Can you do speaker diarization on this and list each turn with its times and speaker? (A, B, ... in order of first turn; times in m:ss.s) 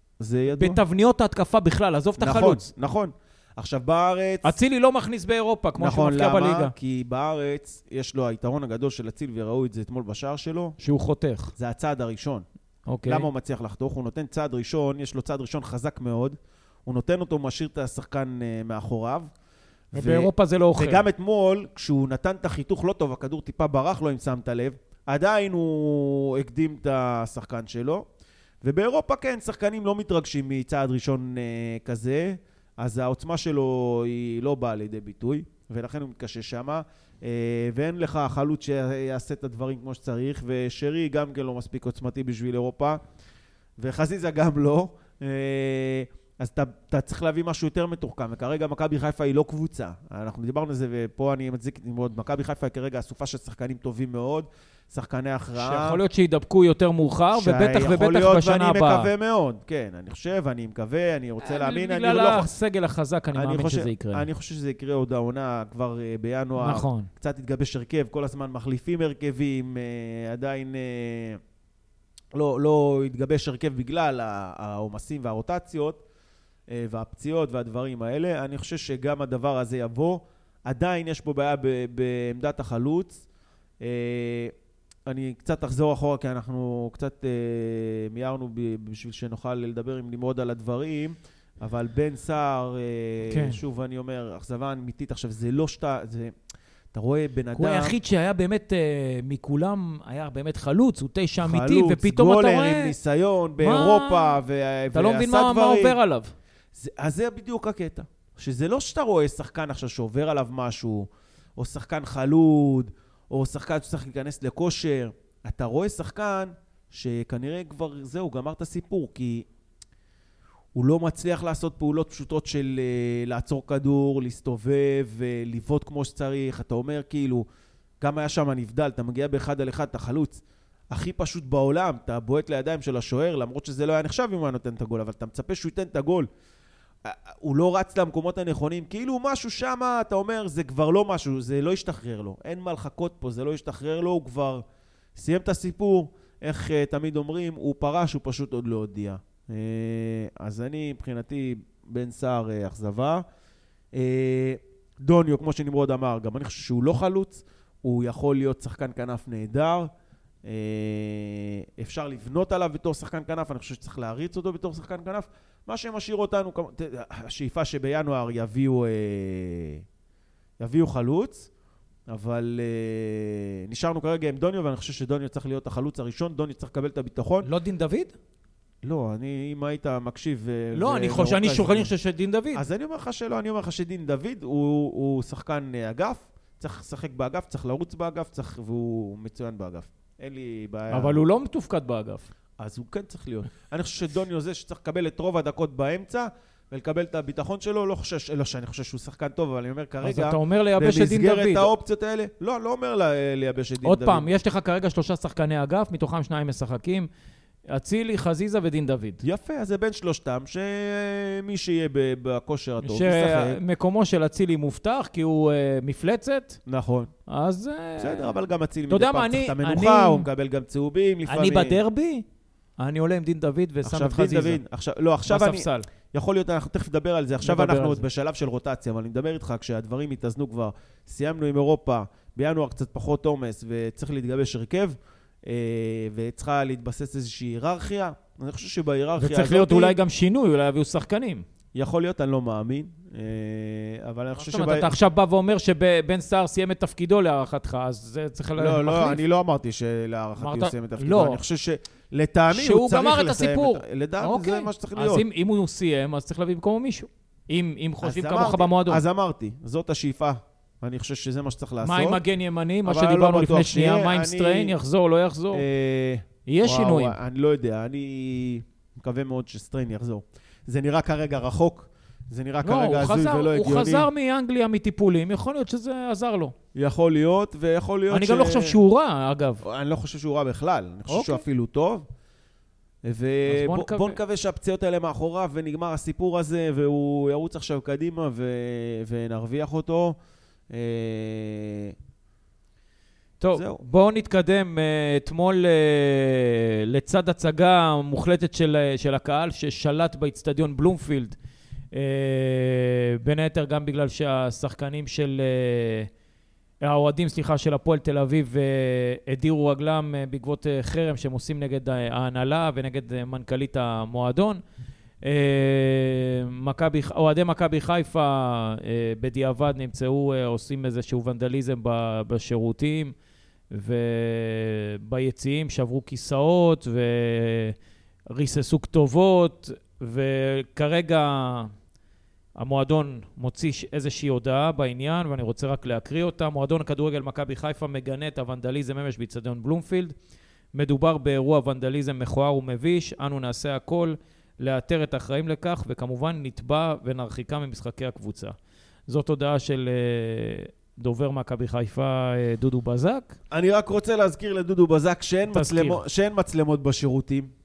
0:00.2-0:00.8 A
0:00.5-0:02.7 B
0:02.2-0:04.5 A
0:04.4-0:06.7 B
0:05.8-0:10.8 A
0:10.8-0:11.5 B
0:11.6-0:12.4 A
0:12.9-0:13.3 B
0:13.1-0:19.3 A
0:19.9-0:28.0 A
0:19.9-0:21.0 B
0:28.6-0:43.0 A
0:43.8-0:56.0 A
0:55.6-0:59.1 B
0:57.3-1:02.5 A
1:01.4-1:04.3 B
1:03.4-1:11.4 A
1:06.6-1:07.1 B
1:12.4-1:16.0 A
1:16.7-1:23.2 A
1:23.8-1:24.5 A
1:25.1-1:36.3 A
1:33.3-1:33.6 B
1:36.9-1:38.0 A
1:37.6-1:43.0 B
1:41.4-1:46.0 A
1:43.6-1:44.4 B
1:44.9-1:46.3 B
1:46.7-1:59.5 A
2:00.8-2:07.4 A
2:08.0-2:16.3 A
2:17.0-2:24.6 A
2:25.2-2:33.2 A
2:33.9-2:39.9 A
2:40.4-2:49.8 A
2:50.6-2:51.5 A
2:52.1-2:57.5 A
2:57.4-2:58.1 B
2:58.8-3:01.9 A
3:00.7-3:02.6 B
3:02.5-3:11.2 A
3:10.9-3:12.3 B
3:12.6-3:24.3 A
3:20.0-3:21.7 B
3:23.8-3:27.1 B
3:27.7-3:29.2 B
3:29.2-3:33.6 A
3:32.8-3:36.6 B
3:36.7-3:37.1 A
3:37.3-3:38.3 B
3:38.0-3:41.8 A
3:38.9-3:40.3 B
3:41.3-3:42.2 B
3:42.8-3:44.6 B
3:43.8-4:00.0 A
3:45.3-3:45.9 B
3:47.4-3:48.0 B
3:59.2-4:01.4 B
4:01.7-4:04.9 A
4:04.4-4:09.2 B
4:08.6-4:15.2 A
4:10.4-4:11.4 B
4:12.5-4:19.0 B
4:18.0-4:22.2 A
4:21.8-4:25.6 B
4:22.8-4:24.8 A
4:25.5-4:34.1 A
4:26.5-4:27.2 B
4:32.6-4:36.6 B
4:36.8-4:38.8 A
4:38.1-4:39.6 B
4:39.6-4:42.1 A
4:41.1-4:41.4 B
4:43.0-4:50.2 A
4:43.5-4:44.2 B
4:50.7-4:52.0 A
4:53.4-5:01.4 B
4:53.6-4:53.8 A
5:01.9-5:06.1 B
5:06.8-5:14.6 B
5:15.2-5:23.1 B
5:23.7-5:27.8 B
5:28.3-5:31.7 B
5:32.6-5:40.2 B
5:40.7-5:48.6 B
5:49.1-5:53.4 B
5:53.5-5:57.5 A
5:55.5-5:56.0 B